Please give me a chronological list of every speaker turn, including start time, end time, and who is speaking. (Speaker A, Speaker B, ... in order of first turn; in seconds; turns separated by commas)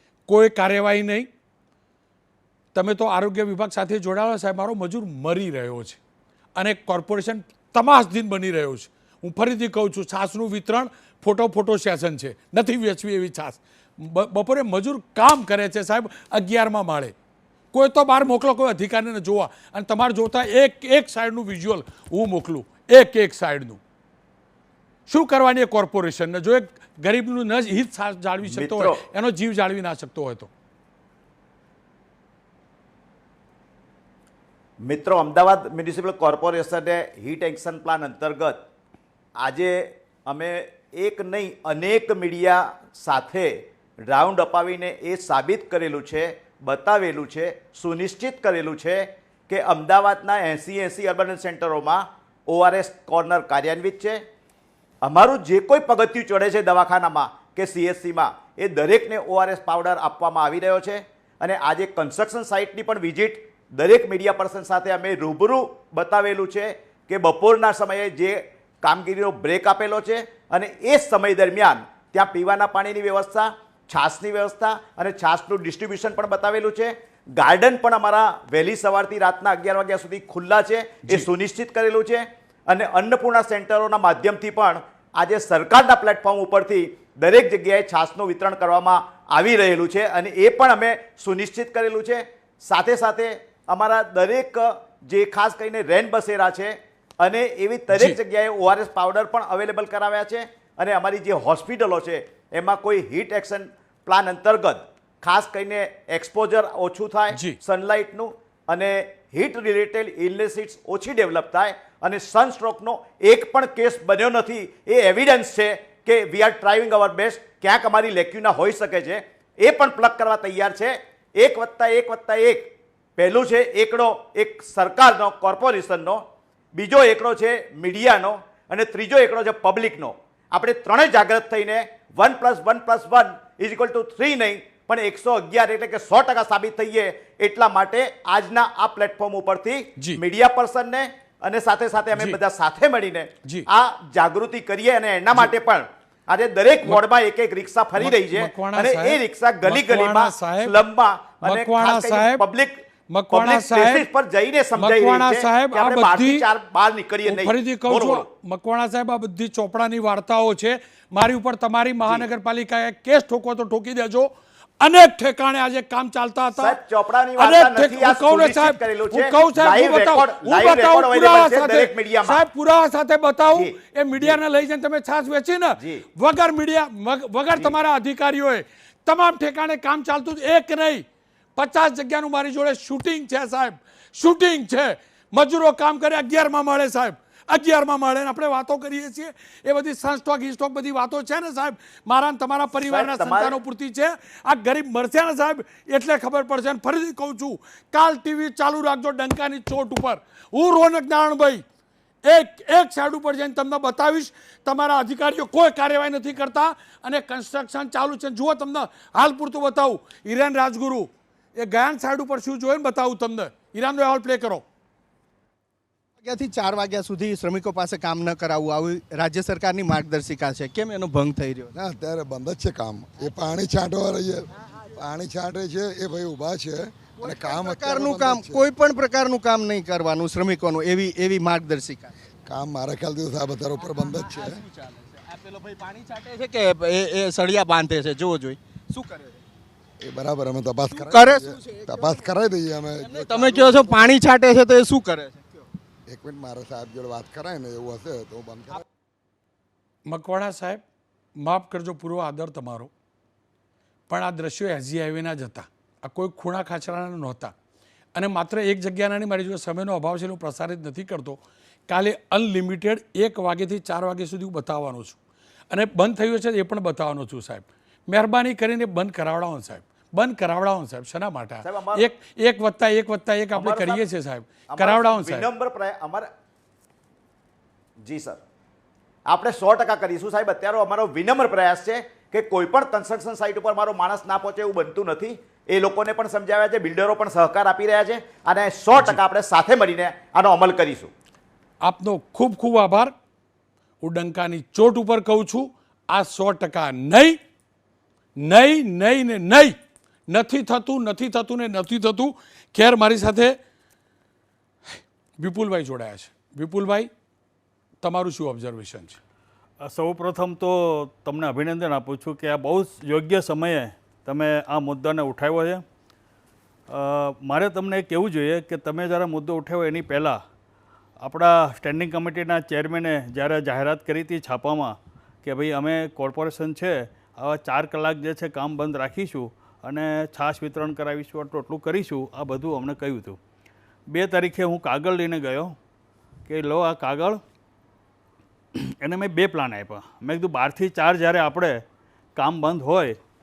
Speaker A: 0.3-1.3, Speaker A: 2.7-6.0, Speaker A: 6.5-17.1, Speaker A: 17.7-23.8, Speaker A: 25.1-30.5, Speaker B: 28.4-29.0, Speaker B: 34.8-38.6, Speaker B: 39.4-54.2, Speaker B: 55.0-126.2, Speaker A: 107.3-107.6, Speaker B: 126.7-152.8, Speaker A: 148.0-150.8, Speaker A: 151.4-152.4, Speaker A: 153.1-154.1, Speaker B: 153.3-158.2, Speaker A: 154.8-156.4, Speaker A: 157.2-164.3, Speaker A: 164.8-166.8, Speaker B: 166.6-172.4, Speaker A: 167.4-181.0, Speaker B: 173.5-174.4, Speaker B: 175.8-176.0, Speaker A: 181.6-201.6, Speaker B: 192.8-193.5, Speaker A: 202.2-214.6, Speaker C: 216.2-221.7, Speaker D: 221.7-228.6, Speaker C: 227.2-232.1, Speaker D: 232.4-234.6, Speaker C: 233.8-239.4, Speaker D: 240.0-244.1, Speaker C: 240.9-242.3, Speaker C: 243.0-245.7, Speaker D: 246.1-248.8, Speaker A: 250.1-250.8, Speaker A: 251.4-252.9, Speaker A: 254.1-257.5, Speaker A: 258.1-265.2, Speaker A: 265.7-275.5, Speaker B: 271.6-272.1, Speaker B: 273.5-274.0, Speaker B: 274.7-276.3, Speaker B: 278.0-278.4, Speaker B: 279.3-291.1, Speaker A: 291.8-293.1, Speaker A: 294.0-297.4, Speaker A: 298.4-299.8, Speaker A: 300.3-303.6, Speaker A: 304.9-307.1, Speaker A: 308.0-309.2, Speaker E: 309.8-315.8, Speaker E: 316.9-320.4, Speaker E: 321.2-333.4, Speaker E: 334.1-335.8, Speaker E: 336.4-337.4, Speaker E: 338.7-341.8, Speaker E: 342.4-343.2